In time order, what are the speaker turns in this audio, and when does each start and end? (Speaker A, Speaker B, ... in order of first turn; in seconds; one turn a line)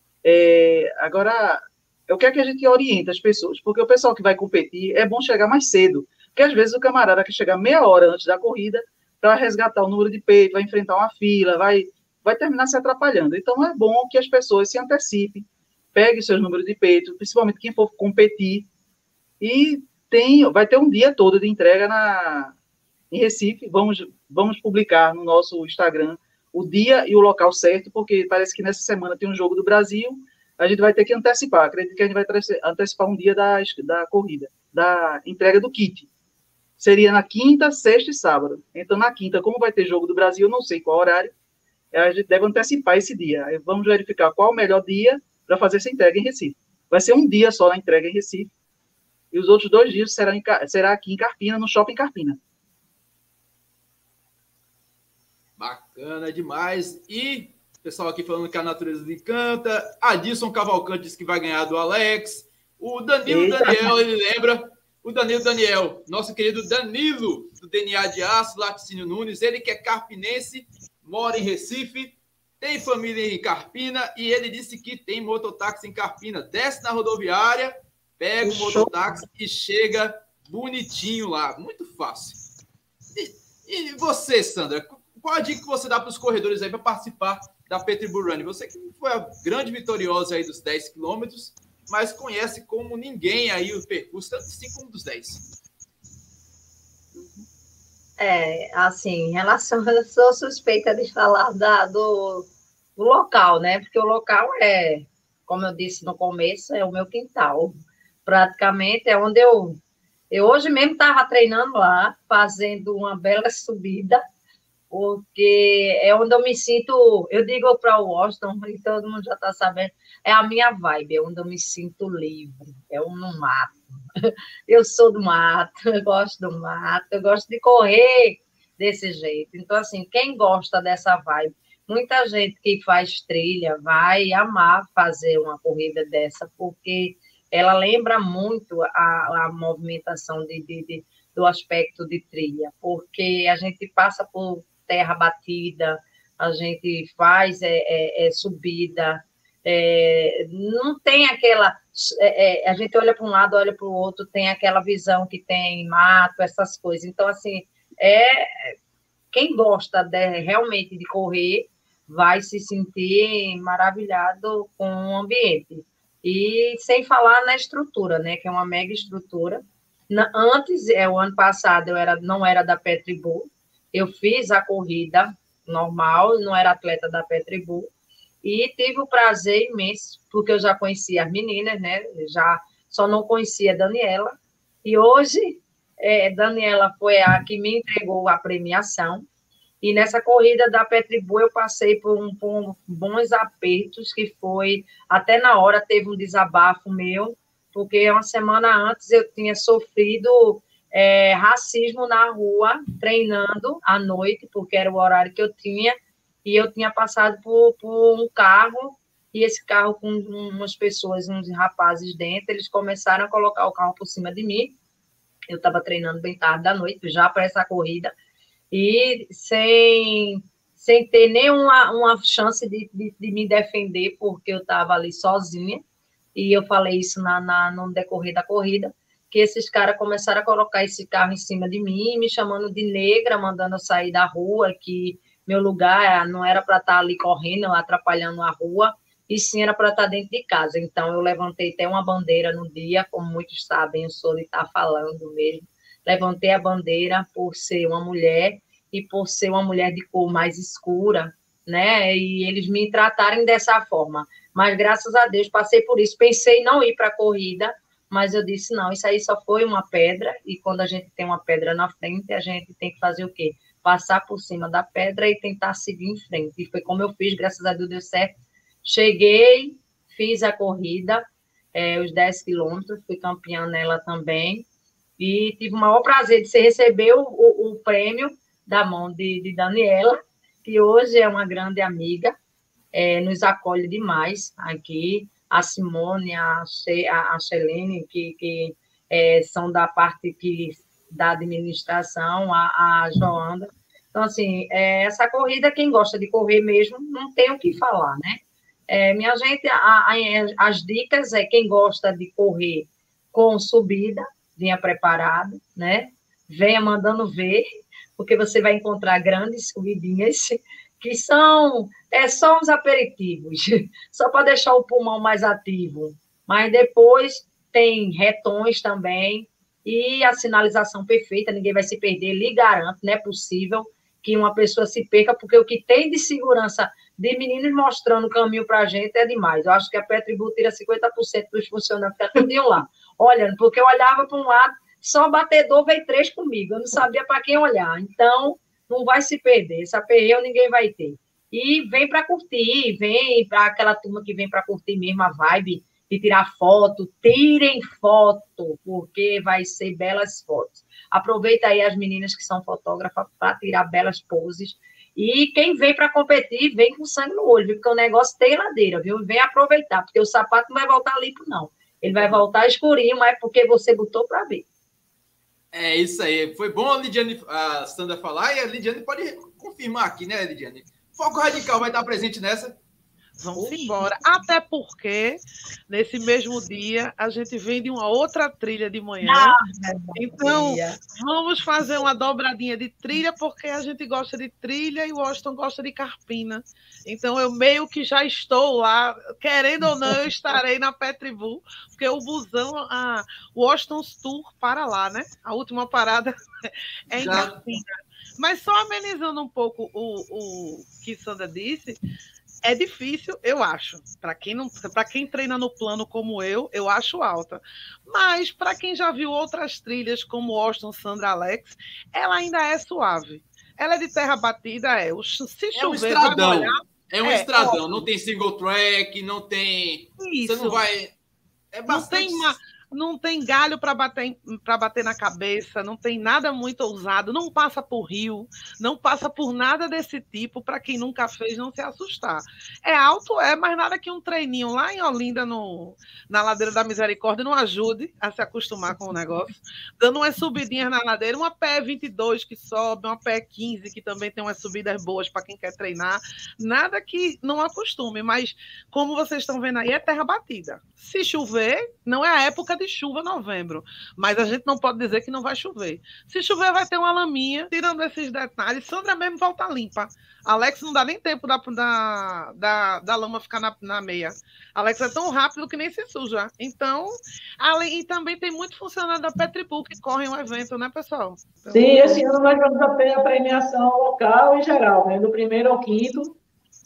Speaker A: 0.2-18.7
Speaker A: 19.4-22.6
Speaker A: 23.1-36.1
Speaker A: 36.8-41.3
Speaker A: 41.9-48.5
Speaker A: 49.3-52.4
Speaker B: 55.6-82.4
Speaker A: 63.3-64.0
Speaker A: 78.4-79.2
Speaker B: 83.1-95.4
Speaker A: 97.1-97.4
Speaker C: 98.2-109.8
Speaker C: 110.3-114.2
Speaker C: 114.9-158.8
Speaker C: 159.3-177.9
Speaker C: 178.4-189.3
Speaker C: 189.8-214.8
Speaker C: 215.5-218.1
Speaker C: 218.7-225.8
Speaker C: 226.3-274.6
Speaker C: 275.2-282.4
Speaker C: 282.9-307.7
Speaker C: 308.2-364.7
Speaker B: 365.7-372.8
Speaker D: 373.4-379.6
Speaker C: 373.6-373.8
Speaker C: 379.2-381.0
Speaker D: 380.2-397.9
Speaker B: 397.2-397.7
Speaker D: 398.4-402.0
Speaker D: 402.6-418.1
Speaker B: 415.7-421.1
Speaker D: 420.2-420.8
Speaker B: 421.7-422.6
Speaker D: 421.9-472.2
Speaker E: 471.7-476.4